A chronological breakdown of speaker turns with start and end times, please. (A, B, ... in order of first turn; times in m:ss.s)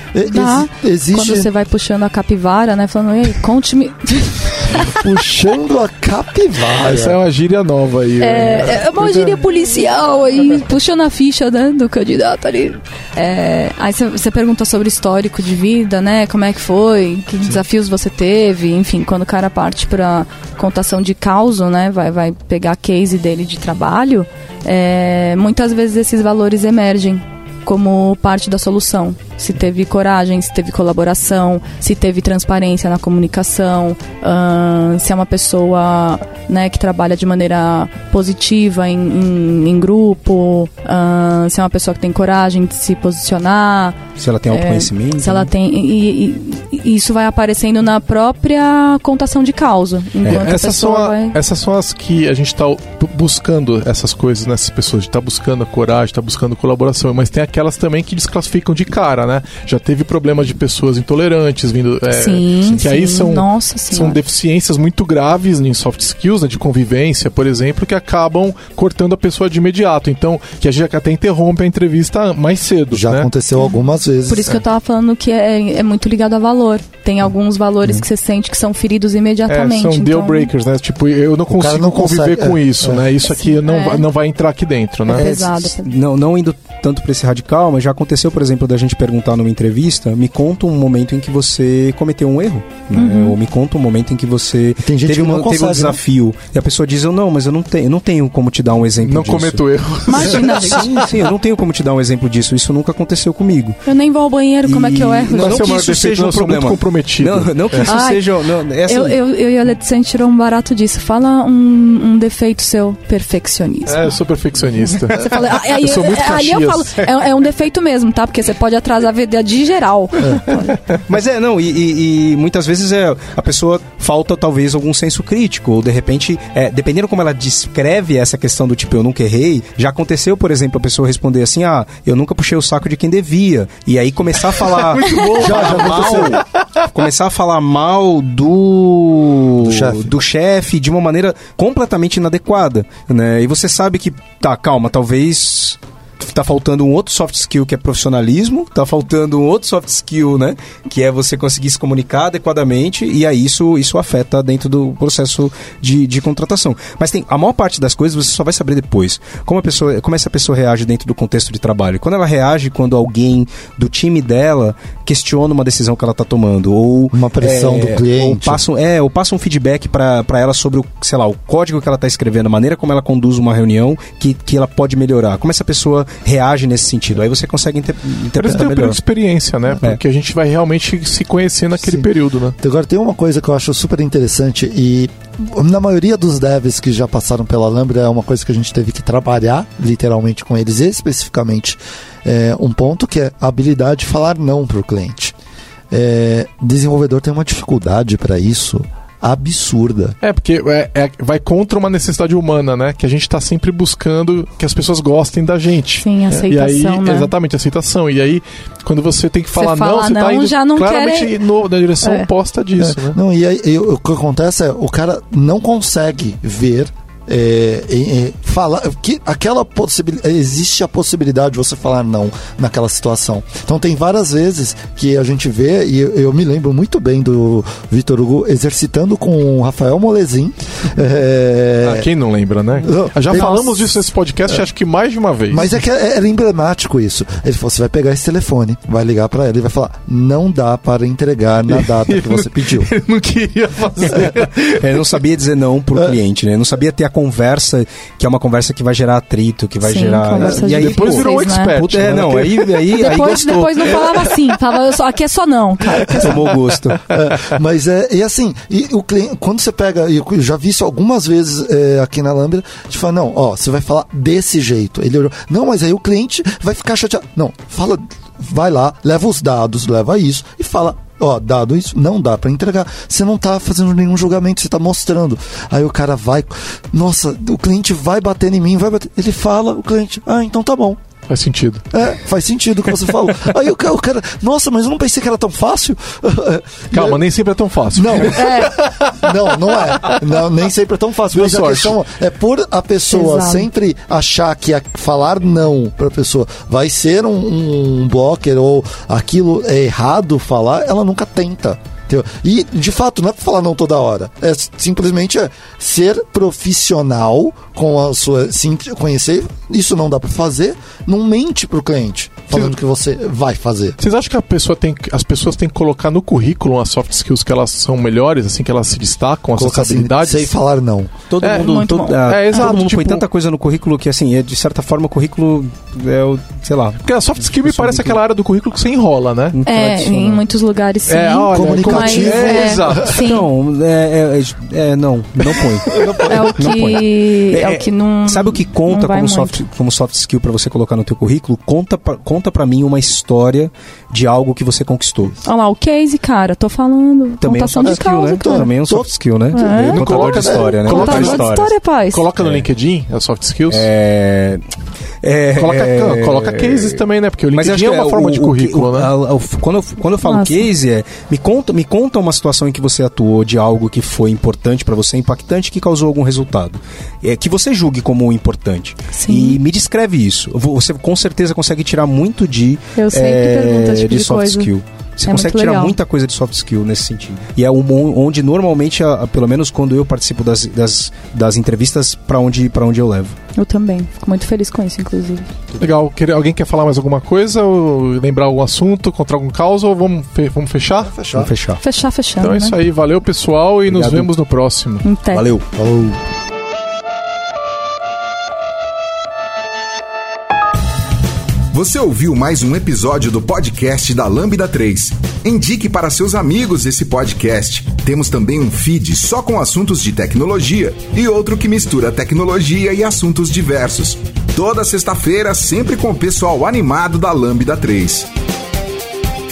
0:00.1-0:01.5 A
0:00.3-0:05.0 B
0:04.9-0:07.2 A
0:05.0-0:05.6 C
0:06.8-0:09.4 C
0:08.2-0:51.4 B
0:44.2-0:45.5 D
0:50.2-0:50.5 D
0:50.2-1:13.3 C
1:02.1-1:04.2 B
1:12.9-1:14.6 A
1:14.3-1:20.5 B
1:19.5-1:25.3 C
1:21.5-1:23.1 A
1:23.2-1:24.0 B
1:25.1-1:25.9 B
1:25.1-1:43.8 D
1:32.9-1:33.4 B
1:34.8-1:36.0 A
1:39.0-1:41.1 C
1:40.1-1:40.9 B
1:43.8-1:45.8 B
1:44.6-1:49.2 D
1:45.3-1:48.0 C
1:47.8-1:54.1 B
1:53.9-1:57.1 C
1:55.1-2:00.7 B
2:01.1-2:59.0 D
2:14.5-2:16.8 C
2:15.4-2:16.4 A
2:19.6-2:20.2 A
2:47.1-2:48.6 A
2:58.4-3:02.6 C
3:01.8-3:02.1 A
3:02.6-3:15.3 A
3:15.9-3:20.2 A
3:20.2-3:33.2 C
3:26.0-3:27.3 B
3:29.5-3:31.4 B
3:32.0-3:32.3 B
3:32.8-3:52.1 A
3:51.8-3:55.7 C
3:52.8-3:53.9 A
3:55.5-4:02.9 A
4:01.7-4:04.9 C
4:04.1-4:14.3 D
4:09.8-4:11.8 B
4:10.5-4:12.9 C
4:12.8-4:16.4 B
4:16.1-4:17.0 D
4:17.1-4:41.0 A
4:41.3-4:41.8 C
4:41.9-4:47.2 A
4:46.9-4:50.2 C
4:47.9-5:14.0 A
4:48.3-4:48.7 B
4:51.3-4:52.0 C
4:53.1-4:53.7 B
5:14.0-5:20.5 C
5:19.6-5:21.1 A
5:21.3-5:28.2 D
5:21.4-5:22.7 B
5:21.4-5:23.3 C
5:27.0-5:29.6 C
5:29.5-5:30.4 D
5:29.6-5:33.5 B
5:31.1-5:33.2 C
5:31.5-5:33.0 A
5:32.0-5:45.4 D
5:35.9-5:36.5 A
5:36.2-5:39.6 B
5:45.4-5:48.7 B
5:47.4-5:51.7 D
5:47.8-5:49.1 A
5:49.5-5:52.2 B
5:49.6-5:50.8 A
5:49.8-5:51.6 C
5:52.1-5:53.8 C
5:52.4-5:52.6 D
5:53.7-5:54.6 D
5:55.2-5:57.0 D
5:55.6-5:59.1 C
5:57.5-6:23.3 D
6:00.2-6:00.7 B
6:09.1-6:09.6 B
6:13.0-6:14.7 B
6:15.3-6:16.0 B
6:23.5-6:25.5 B
6:25.8-6:31.1 C
6:31.1-6:31.5 A
6:31.3-6:31.8 D
6:31.8-6:32.8 B
6:32.4-6:35.0 C
6:33.9-6:34.3 D
6:35.0-6:35.4 B
6:35.3-6:36.2 D
6:41.7-6:58.3 E